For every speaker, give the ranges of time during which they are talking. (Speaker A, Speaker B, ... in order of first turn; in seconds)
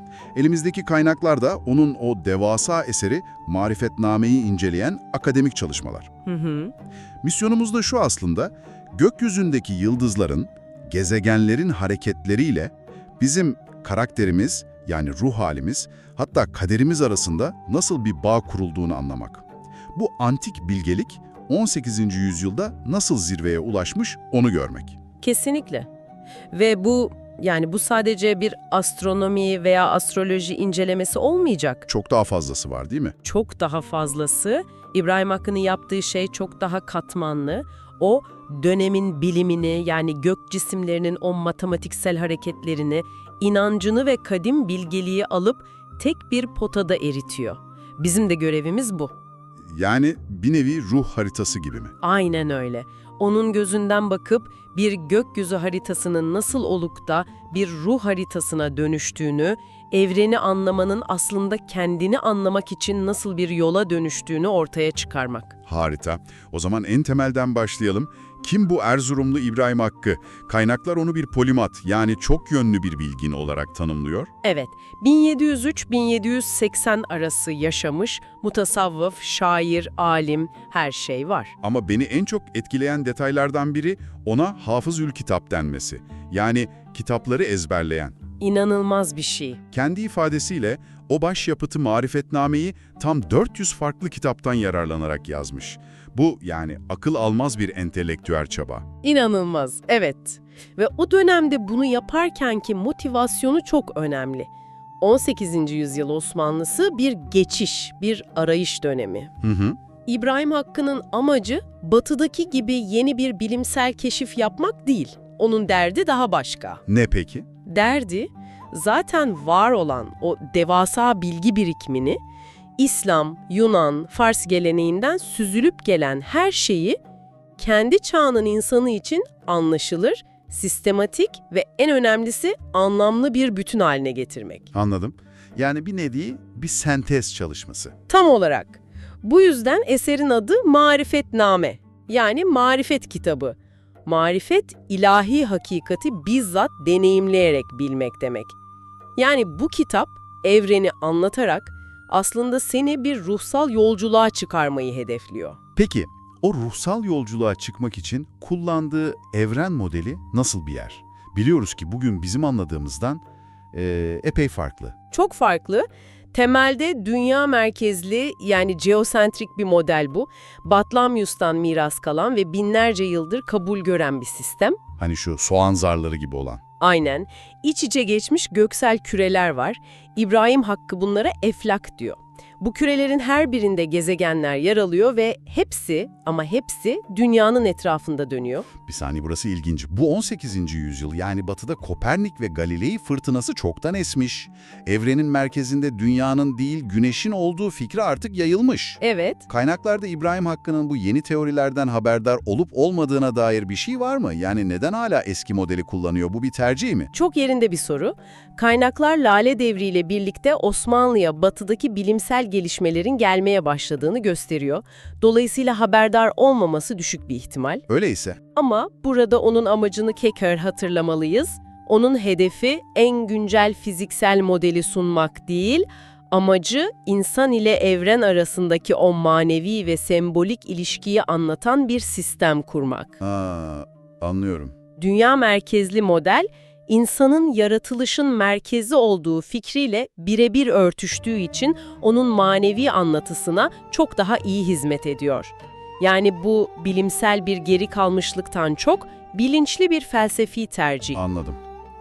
Speaker A: 0.3-6.1, 7.2-25.0, 31.9-33.1, 49.7-51.9, 65.7-74.3, 81.6-88.2, 89.7-98.9, 109.4-109.8, 116.9-117.5, 134.7-137.9, 155.8-163.2, 163.7-164.9, 175.0-176.6, 188.8-207.1, 217.9-218.4, 233.2-234.7, 251.1-251.6
Speaker B: 6.2-6.7, 25.2-25.9, 26.5-31.9, 33.2-49.1, 52.0-65.5, 74.4-81.5, 88.4-89.6, 99.0-104.5, 105.0-109.3, 110.0-116.8, 117.7-122.2, 122.8-127.0, 127.6-134.7, 138.1-148.5, 149.2-155.6, 165.1-174.8, 176.8-188.7, 199.0-199.4, 207.1-217.8, 218.5-233.1, 235.0-251.2